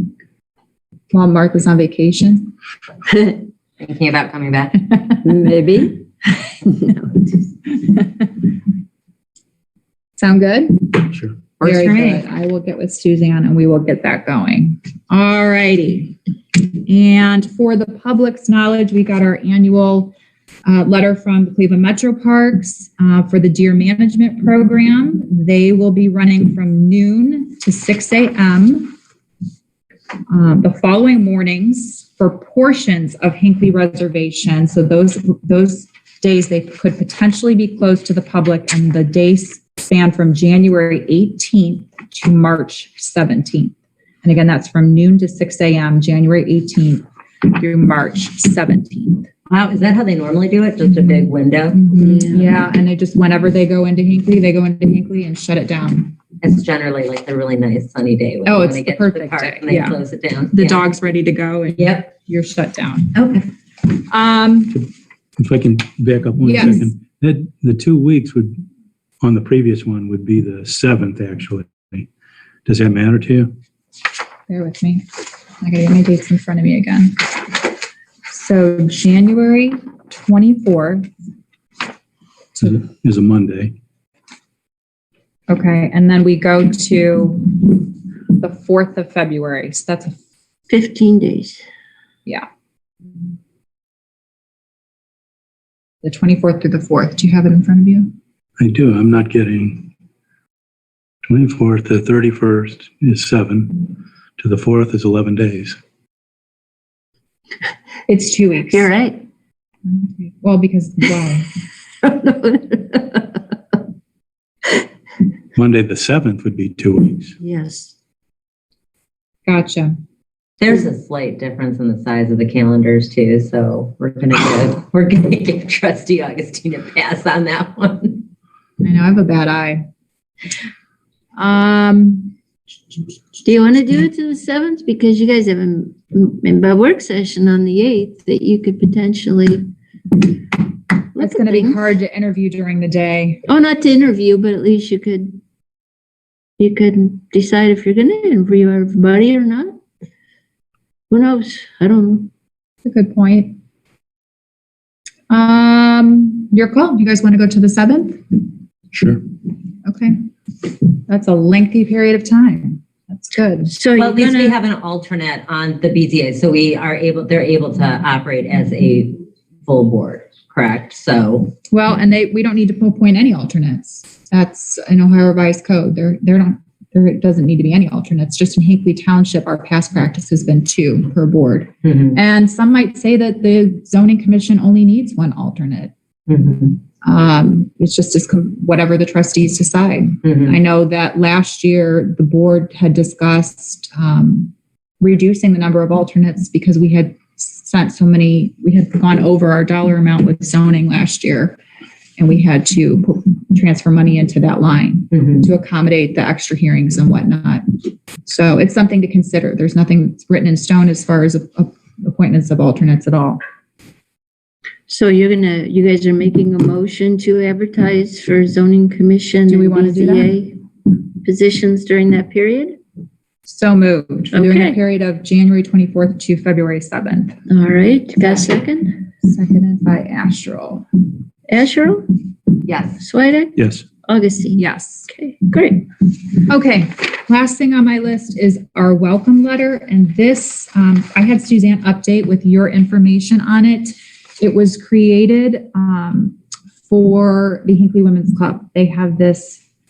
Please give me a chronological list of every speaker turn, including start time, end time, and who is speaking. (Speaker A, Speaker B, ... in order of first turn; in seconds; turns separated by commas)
Speaker A: 1.1-2.5, Speaker B: 3.8-4.9, Speaker A: 7.8-8.3, Speaker A: 10.2-16.2, Speaker B: 11.6-12.2, Speaker A: 16.9-20.1, Speaker A: 20.7-29.0, Speaker A: 30.3-49.3, Speaker B: 49.5-51.8, Speaker A: 51.7-56.2, Speaker C: 52.0-52.6, Speaker B: 56.4-60.9, Speaker A: 58.5-63.1, Speaker B: 61.8-62.1, Speaker B: 63.1-63.4, Speaker A: 63.9-64.9, Speaker D: 65.4-68.6, Speaker A: 66.4-66.9, Speaker D: 69.2-72.1, Speaker D: 72.7-73.5, Speaker A: 74.5-75.0, Speaker A: 75.6-77.4, Speaker A: 78.3-81.1, Speaker D: 82.6-83.7, Speaker A: 85.5-90.2, Speaker C: 90.7-91.6, Speaker A: 96.0-98.1, Speaker D: 98.6-99.9, Speaker D: 101.3-105.8, Speaker A: 108.1-108.9, Speaker C: 108.7-109.2, Speaker A: 109.8-111.5, Speaker C: 112.0-113.4, Speaker D: 115.6-117.3, Speaker C: 117.4-117.9, Speaker A: 119.5-120.0, Speaker B: 120.6-128.2, Speaker A: 128.8-129.8, Speaker A: 131.4-132.3, Speaker C: 133.4-139.7, Speaker C: 141.1-141.9, Speaker A: 141.2-143.4, Speaker C: 143.5-145.4, Speaker C: 146.6-149.8, Speaker C: 151.1-152.3, Speaker A: 152.8-153.6, Speaker A: 155.3-158.4, Speaker D: 158.9-159.2, Speaker A: 159.8-160.2, Speaker A: 161.1-163.8, Speaker C: 163.7-164.6, Speaker B: 164.0-171.6, Speaker A: 171.7-185.9, Speaker B: 186.3-186.8, Speaker A: 187.0-201.6, Speaker B: 190.2-190.6, Speaker A: 202.2-207.7, Speaker A: 208.2-213.4, Speaker C: 214.9-220.6, Speaker A: 219.5-220.4, Speaker C: 221.2-222.8, Speaker A: 223.4-227.4, Speaker C: 224.3-224.8, Speaker C: 227.5-229.0, Speaker A: 229.2-230.9, Speaker C: 231.5-232.2, Speaker B: 232.7-233.0, Speaker C: 233.0-235.9, Speaker D: 233.6-233.8, Speaker A: 234.6-235.1, Speaker A: 236.5-246.4, Speaker A: 246.9-249.6